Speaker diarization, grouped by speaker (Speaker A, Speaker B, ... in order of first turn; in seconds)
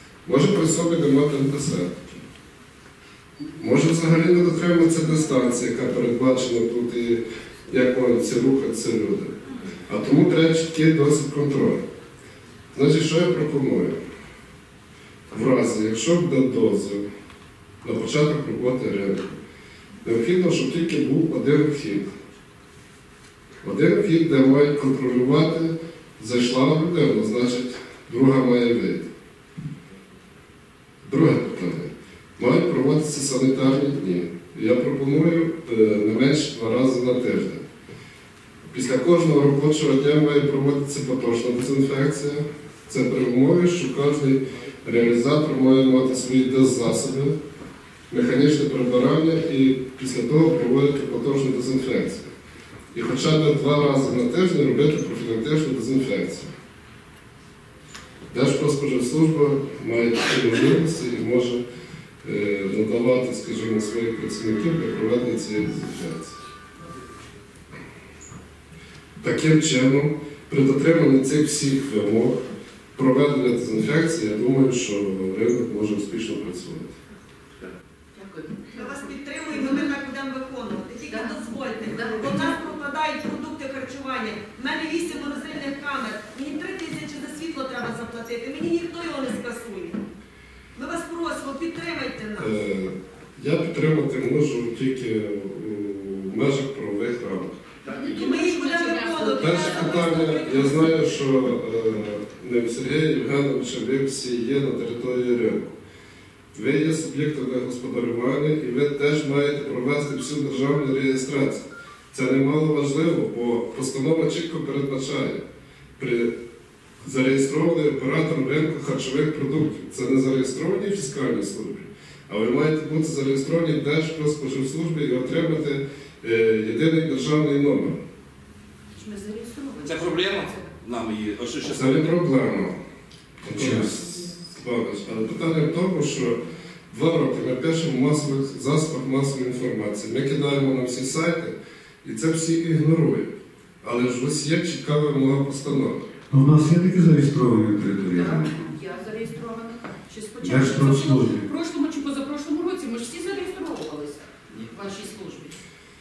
Speaker A: 0.2-2.2, 3.6-11.8, 12.7-14.0, 15.3-17.0, 17.8-19.4, 20.0-22.1, 23.6-29.1, 31.0-37.6, 38.7-47.3, 48.1-52.3, 52.9-56.5, 58.3-61.6, 62.2-66.4, 69.2-72.3, 72.9-77.0, 92.4-97.6, 99.4-105.7, 106.5-115.4, 116.0-116.3, 117.0-128.0, 131.7-132.7, 133.4-136.4, 136.9-146.0
Speaker B: 78.1-79.0, 79.5-79.9, 81.1-82.5, 97.9-100.3, 129.0-130.6, 148.1-155.5
Speaker C: 78.7-90.0, 90.7-92.5, 97.9-101.0
Speaker D: 129.8-132.1
Speaker E: 133.5-133.9, 146.3-148.5, 150.4-151.4